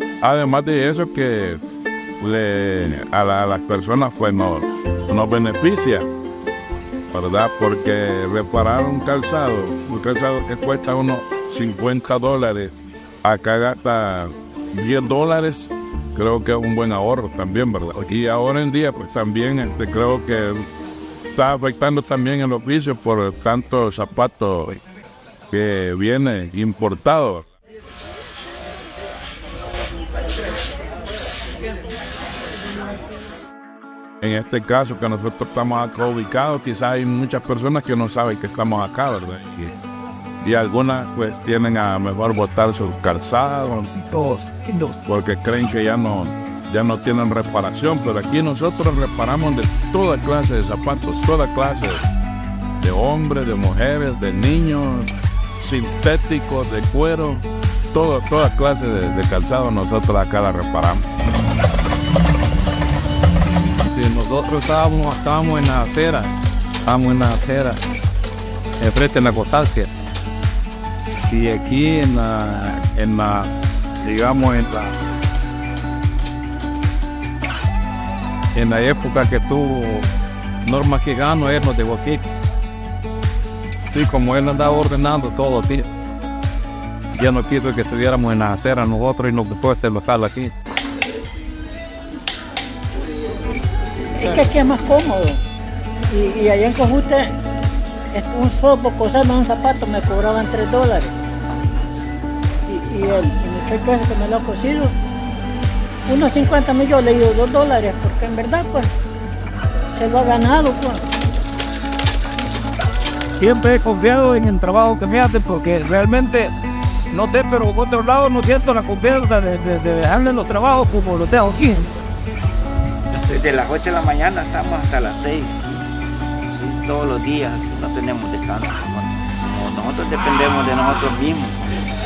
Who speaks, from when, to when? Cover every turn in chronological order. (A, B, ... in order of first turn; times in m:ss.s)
0:00.2-0:01.6 A
0:02.2-0:06.1 A
0:07.1-0:12.7 A
0:13.2-0:20.7 A
0:21.3-0:24.8 A
0:25.5-0:27.5 A
0:34.2-0:39.8 A
0:40.4-0:44.2 A
0:44.2-0:45.0 B
0:45.0-0:52.1 A
0:52.8-1:01.0 A
1:03.9-1:06.3 B
1:06.8-1:07.8 B
1:08.8-1:09.9 B
1:11.3-1:13.5 B
1:14.0-1:14.9 B
1:18.5-1:20.1 B
1:20.6-1:22.2 B
1:23.9-1:25.9 B
1:27.1-1:30.5 B
1:34.2-1:35.4 C
1:36.1-1:37.4 C
1:38.1-1:41.1 C
1:42.7-1:44.9 C
1:46.0-1:48.9 C
1:49.9-1:51.1 C
1:53.4-1:56.5 D
1:57.1-2:01.9 D
2:03.2-2:05.8 E
2:06.5-2:11.6 E